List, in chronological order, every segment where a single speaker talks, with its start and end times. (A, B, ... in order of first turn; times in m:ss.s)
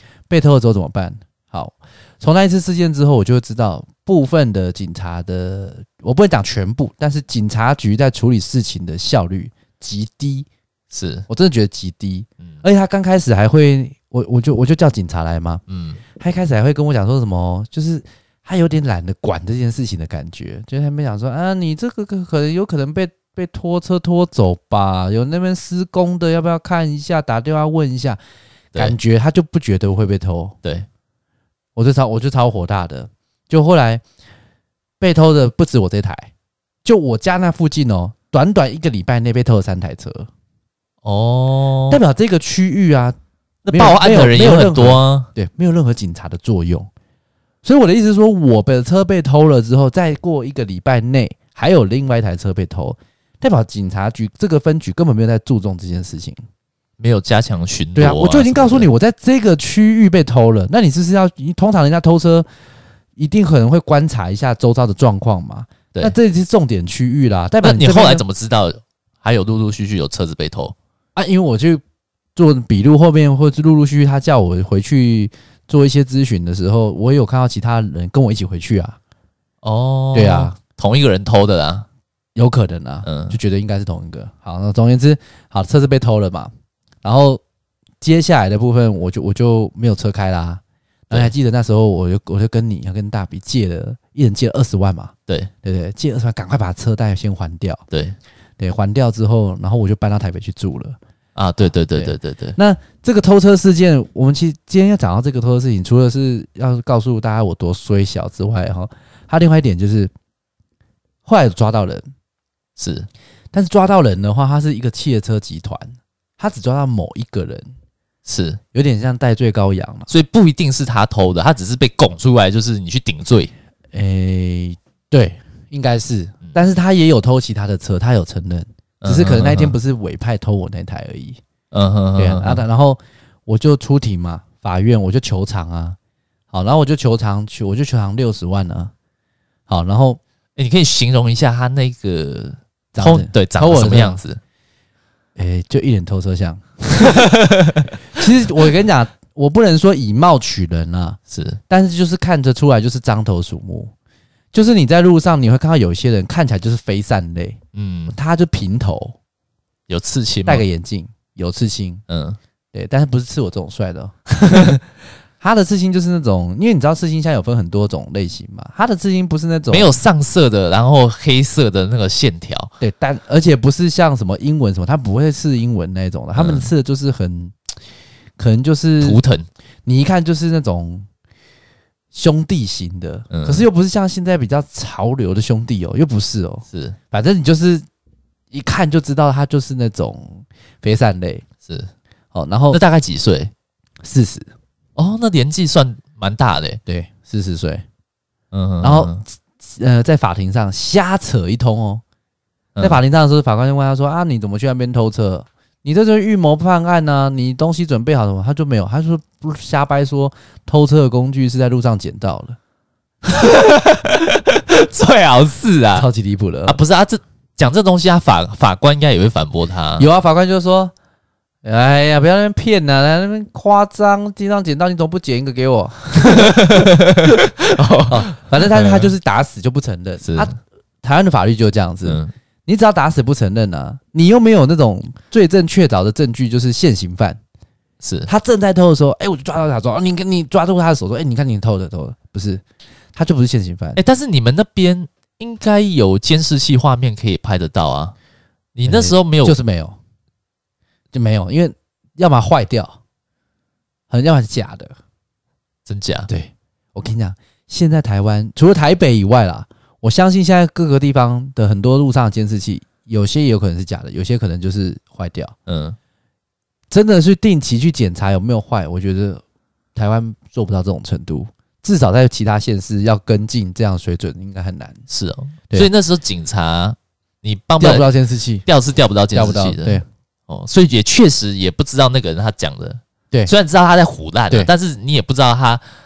0:00.3-0:10.5 A
0:10.9-0:11.3 B
0:11.3-0:15.6 A
0:15.7-0:16.0 B
0:16.2-0:28.2 A
0:28.8-0:30.6 A
0:31.8-0:34.0 A
0:35.0-0:36.3 A
0:36.8-0:40.3 A
0:41.0-0:42.0 B
0:41.9-0:43.2 A
0:43.6-0:45.3 B
0:43.7-0:46.9 A
0:47.6-0:56.4 A
0:57.0-0:58.9 B
0:58.0-1:02.5 A
1:03.2-1:08.2 A
1:07.6-1:10.8 B
1:11.2-1:11.8 A
1:12.4-1:19.0 A
1:19.6-1:21.9 B
1:20.1-1:20.6 A
1:22.4-1:26.5 A
1:23.0-1:23.4 B
1:27.0-1:27.4 A
1:28.0-1:35.1 A
1:35.6-1:37.8 A
1:37.9-1:38.2 B
1:38.6-1:41.0 A
1:41.4-1:42.6 B
1:41.9-1:50.1 A
1:51.2-1:52.1 A
1:52.8-1:53.1 B
1:53.5-1:57.7 A
1:58.2-1:58.6 B
1:58.7-2:00.1 A
2:00.1-2:03.5 B
2:03.9-2:11.4 A
2:09.0-2:09.8 B
2:11.7-2:12.6 B
2:12.2-2:16.0 A
2:16.5-2:18.9 A
2:19.7-2:20.2 A
2:20.6-2:24.4 B
2:23.0-2:24.2 A
2:25.4-2:33.9 A
2:27.3-2:27.8 B
2:31.3-2:31.6 B
2:34.5-2:37.6 A
2:37.7-2:38.2 B
2:38.1-2:39.2 A
2:39.9-2:40.6 B
2:40.5-2:42.0 A
2:42.1-2:42.4 B
2:42.7-2:44.8 A
2:45.4-2:50.0 A
2:49.7-2:52.7 B
2:52.8-2:57.6 A
2:56.4-2:56.7 B
2:58.4-2:59.2 A
2:59.0-2:59.5 B
2:59.9-3:01.1 A
3:02.1-3:07.8 A
3:03.3-3:03.7 B
3:06.7-3:07.0 B
3:08.5-3:11.4 A
3:11.6-3:11.9 B
3:12.3-3:12.8 A
3:12.7-3:13.5 B
3:14.0-3:14.5 A
3:15.0-3:16.8 B
3:16.9-3:17.8 A
3:18.5-3:19.2 B
3:18.8-3:22.0 A
3:22.8-3:23.0 B
3:22.8-3:32.6 A
3:33.3-3:36.1 B
3:36.0-3:36.8 A
3:36.7-3:40.1 B
3:40.0-3:40.9 A
3:41.6-3:47.1 A
3:46.3-3:49.1 B
3:48.1-3:57.4 A
3:50.2-3:50.5 B
3:52.0-3:52.3 B
3:58.0-3:58.3 B
3:58.3-4:02.6 A
4:03.2-4:04.0 A
4:04.0-4:08.2 B
4:08.8-4:09.6 B
4:08.9-4:10.0 A
4:11.1-4:13.0 A
4:14.1-4:15.0 A
4:15.9-4:16.3 B
4:16.3-4:25.6 A
4:25.7-4:26.0 B
4:26.9-4:29.4 A
4:30.0-4:35.0 A
4:35.1-4:38.1 B
4:37.8-4:38.6 A
4:38.7-4:45.8 B
4:39.3-4:40.0 A